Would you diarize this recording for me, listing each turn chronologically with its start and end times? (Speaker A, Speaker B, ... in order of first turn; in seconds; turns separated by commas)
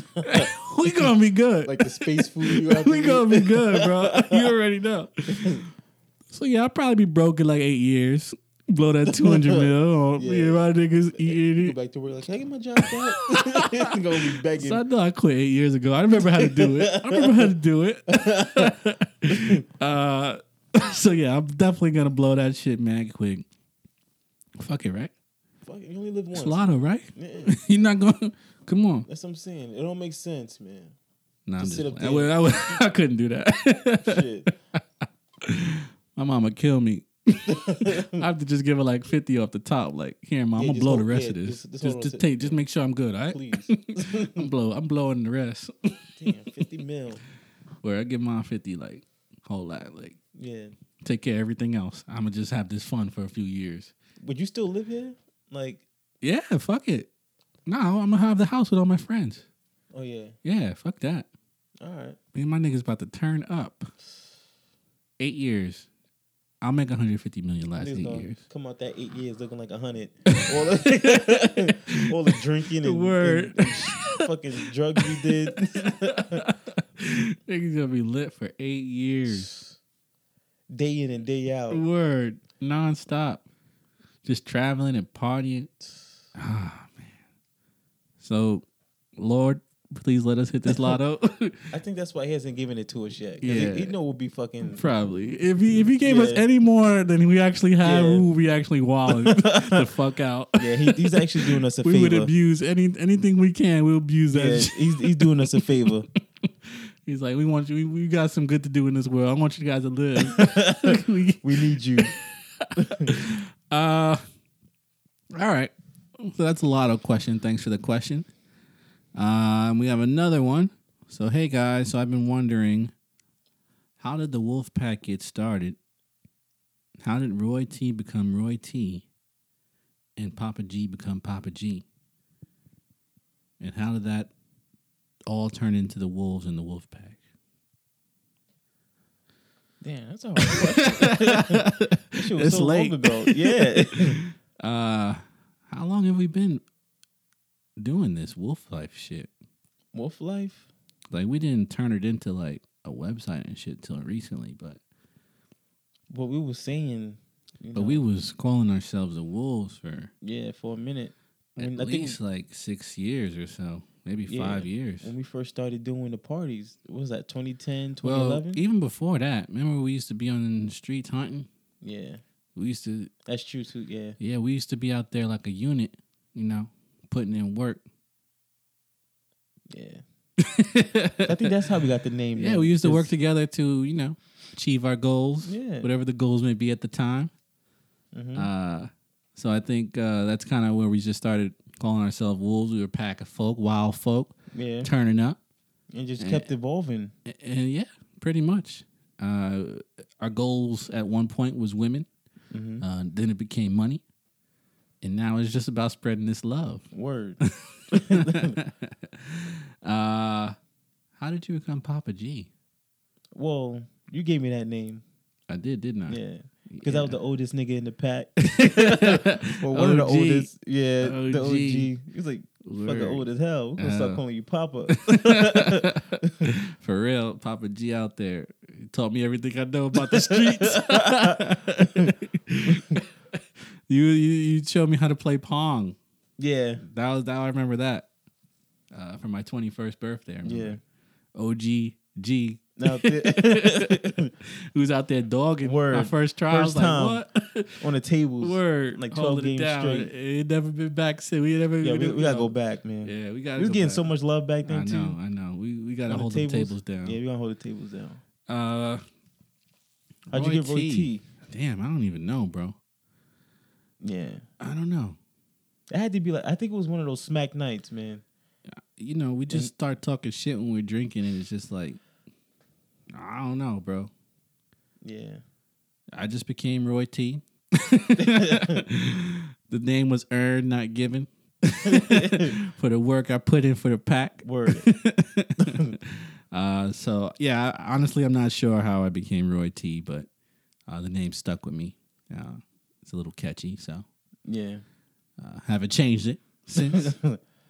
Speaker A: 0.2-1.1, Speaker B: 0.2-5.7, Speaker A: 1.6-4.5, Speaker B: 6.3-11.8, Speaker A: 9.1-10.7, Speaker A: 11.2-14.8, Speaker B: 12.8-13.9, Speaker B: 14.5-23.4, Speaker A: 16.2-17.5, Speaker A: 18.1-18.7, Speaker A: 19.3-19.6, Speaker B: 24.6-25.1, Speaker A: 25.6-27.5, Speaker B: 26.3-29.1, Speaker A: 29.1-30.9, Speaker B: 31.5-34.8, Speaker A: 31.6-32.8, Speaker A: 34.0-34.5, Speaker B: 35.4-46.3, Speaker A: 37.5-38.2, Speaker A: 40.5-42.6, Speaker A: 43.3-44.5, Speaker A: 46.2-47.2, Speaker B: 47.8-50.2, Speaker A: 50.3-50.7, Speaker B: 51.0-53.9, Speaker A: 54.2-55.8, Speaker B: 56.2-57.1, Speaker B: 57.7-59.4, Speaker A: 59.9-60.3, Speaker B: 60.4-61.3, Speaker A: 61.8-62.2, Speaker B: 62.3-63.9, Speaker B: 65.2-65.9, Speaker B: 66.6-68.4, Speaker A: 67.8-76.4, Speaker B: 70.3-79.5, Speaker A: 79.3-79.7, Speaker A: 80.7-81.8, Speaker B: 81.7-83.4, Speaker B: 84.2-85.7, Speaker B: 86.3-87.1, Speaker B: 88.2-88.6, Speaker B: 89.2-91.7, Speaker A: 90.7-91.0, Speaker A: 91.7-94.8, Speaker B: 93.4-93.9, Speaker B: 94.7-105.6, Speaker A: 96.0-96.4, Speaker A: 97.8-98.2, Speaker A: 99.1-99.9, Speaker A: 100.6-102.3, Speaker A: 104.3-106.1, Speaker B: 106.7-114.2, Speaker A: 110.2-112.1, Speaker A: 112.8-113.1, Speaker B: 115.3-118.3, Speaker B: 119.1-122.9, Speaker B: 124.0-125.8, Speaker B: 127.0-129.1, Speaker B: 130.2-131.8, Speaker B: 133.6-134.3, Speaker B: 135.3-137.2, Speaker A: 139.8-144.2, Speaker B: 140.4-146.6, Speaker B: 147.8-149.3, Speaker A: 149.9-150.7, Speaker B: 151.1-154.8, Speaker A: 156.1-158.0, Speaker B: 157.7-160.1, Speaker A: 160.2-162.2, Speaker B: 161.6-165.1, Speaker A: 164.3-168.6, Speaker B: 168.0-171.5, Speaker A: 171.8-172.2, Speaker B: 172.6-173.1, Speaker A: 173.2-174.2, Speaker B: 174.2-177.8, Speaker A: 179.7-180.0, Speaker B: 180.4-181.5, Speaker A: 181.2-183.1, Speaker B: 182.3-187.3, Speaker A: 185.4-185.9, Speaker A: 188.1-188.5, Speaker B: 188.3-195.4, Speaker A: 194.5-194.9, Speaker A: 195.9-197.1, Speaker B: 196.2-196.5, Speaker B: 197.2-202.1, Speaker A: 202.5-202.8, Speaker B: 202.8-204.0, Speaker B: 205.0-206.9, Speaker A: 206.9-207.4, Speaker B: 207.4-210.6, Speaker A: 207.9-208.6, Speaker B: 211.2-212.5, Speaker A: 213.3-215.0, Speaker B: 215.5-217.1, Speaker A: 216.1-226.5, Speaker B: 218.4-220.5, Speaker B: 221.0-221.9, Speaker B: 222.6-223.2, Speaker B: 223.8-224.2, Speaker B: 224.9-236.0, Speaker A: 229.9-232.1, Speaker A: 232.7-233.0, Speaker A: 236.4-236.8, Speaker B: 236.8-238.1, Speaker B: 238.9-240.8, Speaker A: 240.4-240.8, Speaker B: 241.3-247.8, Speaker A: 242.8-244.3, Speaker A: 245.6-247.2, Speaker A: 247.8-250.1, Speaker B: 248.4-254.1, Speaker A: 251.8-255.2, Speaker B: 254.7-257.2, Speaker A: 256.1-258.2, Speaker B: 258.5-259.0, Speaker B: 260.3-262.8, Speaker A: 260.3-261.2, Speaker A: 264.0-264.4, Speaker B: 264.6-265.2, Speaker A: 265.9-268.2, Speaker B: 268.7-272.0, Speaker B: 273.1-274.1, Speaker A: 275.0-275.4, Speaker B: 276.1-290.3, Speaker A: 278.2-278.8, Speaker A: 281.8-282.5, Speaker A: 284.4-284.9, Speaker A: 285.6-285.9, Speaker B: 290.9-294.0, Speaker A: 294.4-294.8, Speaker B: 295.4-297.1, Speaker A: 296.8-297.4